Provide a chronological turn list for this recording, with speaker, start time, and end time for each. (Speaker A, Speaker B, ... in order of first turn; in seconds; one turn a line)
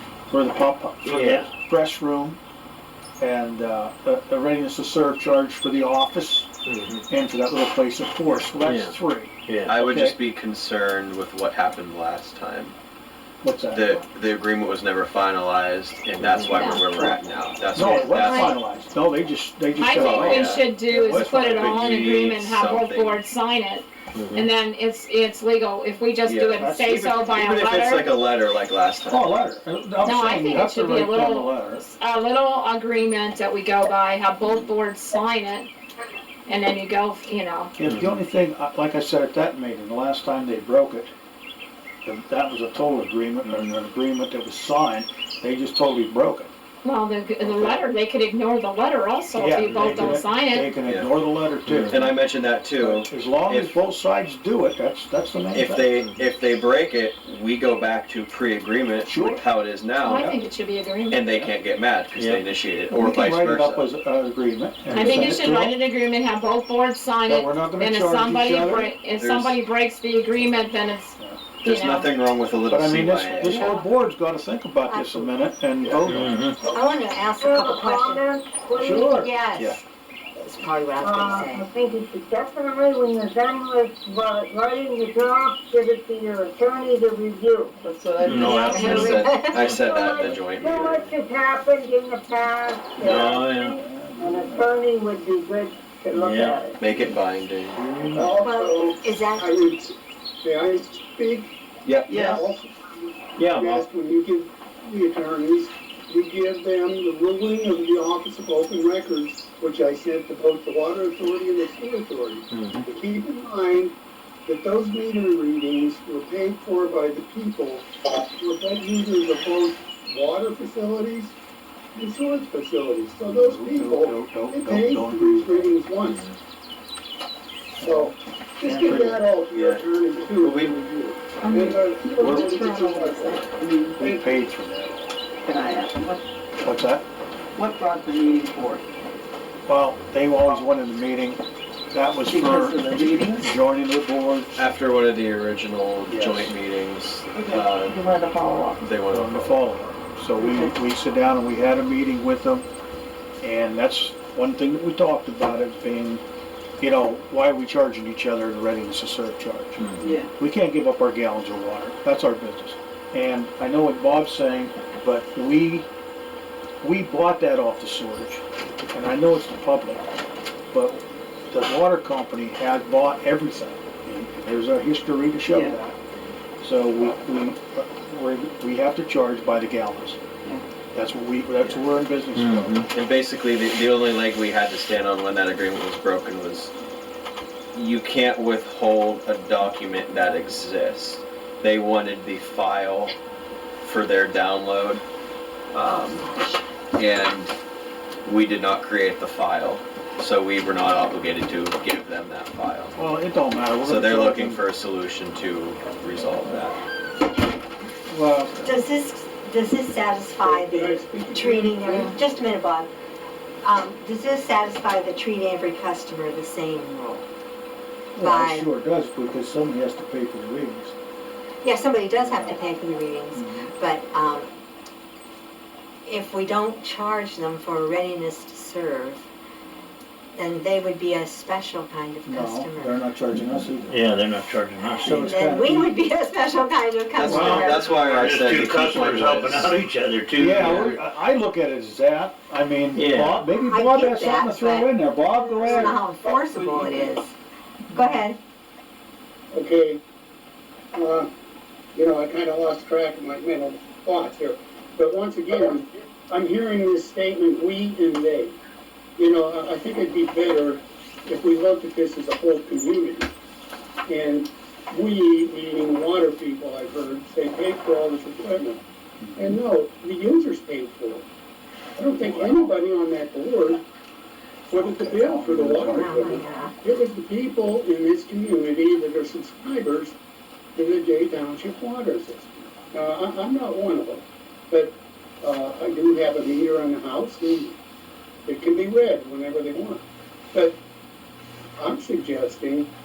Speaker A: 0.3-2.4
Speaker B: 1.0-1.5
Speaker A: 3.2-6.5
Speaker B: 6.6-7.0
Speaker A: 7.1-10.2
Speaker B: 8.6-9.8
Speaker C: 9.6-12.8
Speaker A: 13.4-13.9
Speaker C: 13.7-18.5
Speaker B: 16.2-16.7
Speaker D: 16.5-17.1
Speaker A: 17.7-21.9
Speaker D: 17.8-18.5
Speaker D: 19.8-28.1
Speaker C: 19.9-23.2
Speaker B: 24.1-24.5
Speaker C: 26.3-29.4
Speaker A: 26.6-27.2
Speaker A: 29.1-31.8
Speaker D: 30.0-35.7
Speaker D: 36.5-37.7
Speaker A: 37.8-41.1
Speaker B: 37.8-38.2
Speaker A: 42.0-46.5
Speaker D: 46.8-50.7
Speaker A: 49.4-52.2
Speaker B: 49.7-50.1
Speaker C: 50.8-51.1
Speaker B: 51.6-52.0
Speaker C: 51.9-53.8
Speaker A: 52.8-55.8
Speaker C: 55.5-60.2
Speaker B: 56.0-56.3
Speaker A: 59.0-59.4
Speaker D: 60.0-61.3
Speaker C: 61.1-63.9
Speaker B: 62.1-62.5
Speaker A: 62.9-65.8
Speaker D: 64.9-72.1
Speaker A: 67.3-68.9
Speaker C: 69.2-69.6
Speaker C: 71.6-73.7
Speaker A: 72.7-76.4
Speaker D: 73.4-73.8
Speaker E: 74.9-75.4
Speaker C: 75.8-76.1
Speaker B: 76.1-76.6
Speaker E: 76.6-78.3
Speaker F: 77.4-79.2
Speaker A: 78.8-79.8
Speaker E: 79.1-79.8
Speaker E: 80.4-81.7
Speaker F: 81.0-87.7
Speaker G: 88.2-89.3
Speaker B: 88.2-88.7
Speaker F: 88.3-96.8
Speaker E: 88.4-89.7
Speaker D: 88.7-89.1
Speaker C: 88.8-91.1
Speaker B: 89.6-89.9
Speaker B: 93.0-93.8
Speaker A: 93.8-94.8
Speaker B: 96.1-97.2
Speaker C: 96.8-97.8
Speaker B: 97.8-98.3
Speaker H: 98.1-101.5
Speaker E: 98.4-99.6
Speaker C: 101.8-102.2
Speaker H: 102.1-114.0
Speaker C: 103.4-103.9
Speaker B: 112.5-112.9
Speaker H: 114.5-121.3
Speaker H: 121.9-126.2
Speaker A: 123.4-125.8
Speaker A: 127.8-129.2
Speaker H: 127.8-133.5
Speaker C: 129.5-130.8
Speaker G: 132.2-134.0
Speaker A: 132.2-132.5
Speaker A: 134.0-135.1
Speaker H: 134.0-134.3
Speaker G: 135.4-136.2
Speaker A: 136.6-137.1
Speaker G: 137.5-138.8
Speaker A: 139.7-144.6
Speaker G: 142.2-143.5
Speaker C: 144.6-148.2
Speaker A: 146.1-146.5
Speaker G: 147.3-148.8
Speaker C: 148.8-149.6
Speaker A: 149.1-152.7
Speaker G: 150.4-150.7
Speaker A: 153.4-156.2
Speaker A: 156.8-165.9
Speaker B: 159.8-160.1
Speaker A: 166.8-170.1
Speaker A: 170.7-176.0
Speaker A: 176.6-180.2
Speaker A: 180.9-182.9
Speaker B: 182.3-182.9
Speaker C: 182.9-186.7
Speaker C: 187.7-193.1
Speaker C: 193.8-195.0
Speaker C: 195.7-196.3
Speaker C: 196.9-197.6
Speaker C: 198.2-203.0
Speaker A: 202.9-204.6
Speaker C: 203.8-206.8
Speaker A: 208.1-208.5
Speaker C: 208.4-208.7
Speaker E: 208.6-212.9
Speaker H: 210.4-212.2
Speaker E: 213.6-217.2
Speaker A: 218.1-220.9
Speaker E: 218.2-218.7
Speaker E: 221.6-224.5
Speaker A: 222.2-222.6
Speaker A: 223.3-223.7
Speaker E: 226.1-229.2
Speaker E: 230.3-233.0
Speaker A: 232.2-234.0
Speaker B: 233.8-235.4
Speaker E: 234.9-237.9
Speaker A: 235.0-235.9
Speaker C: 237.1-239.8
Speaker A: 237.2-237.7
Speaker B: 237.4-241.0
Speaker A: 240.3-246.0
Speaker C: 243.0-243.4
Speaker E: 243.6-247.3
Speaker G: 246.3-247.1
Speaker E: 247.9-248.4
Speaker H: 249.5-250.0
Speaker H: 250.9-251.3
Speaker H: 251.9-258.6
Speaker H: 259.2-263.3
Speaker H: 264.1-268.8
Speaker A: 269.2-269.6
Speaker H: 269.4-271.2
Speaker H: 272.0-273.9
Speaker A: 272.2-272.5
Speaker A: 274.7-276.5
Speaker H: 274.7-280.1
Speaker E: 275.8-276.8
Speaker H: 280.8-287.8
Speaker H: 288.5-290.8
Speaker H: 291.8-292.9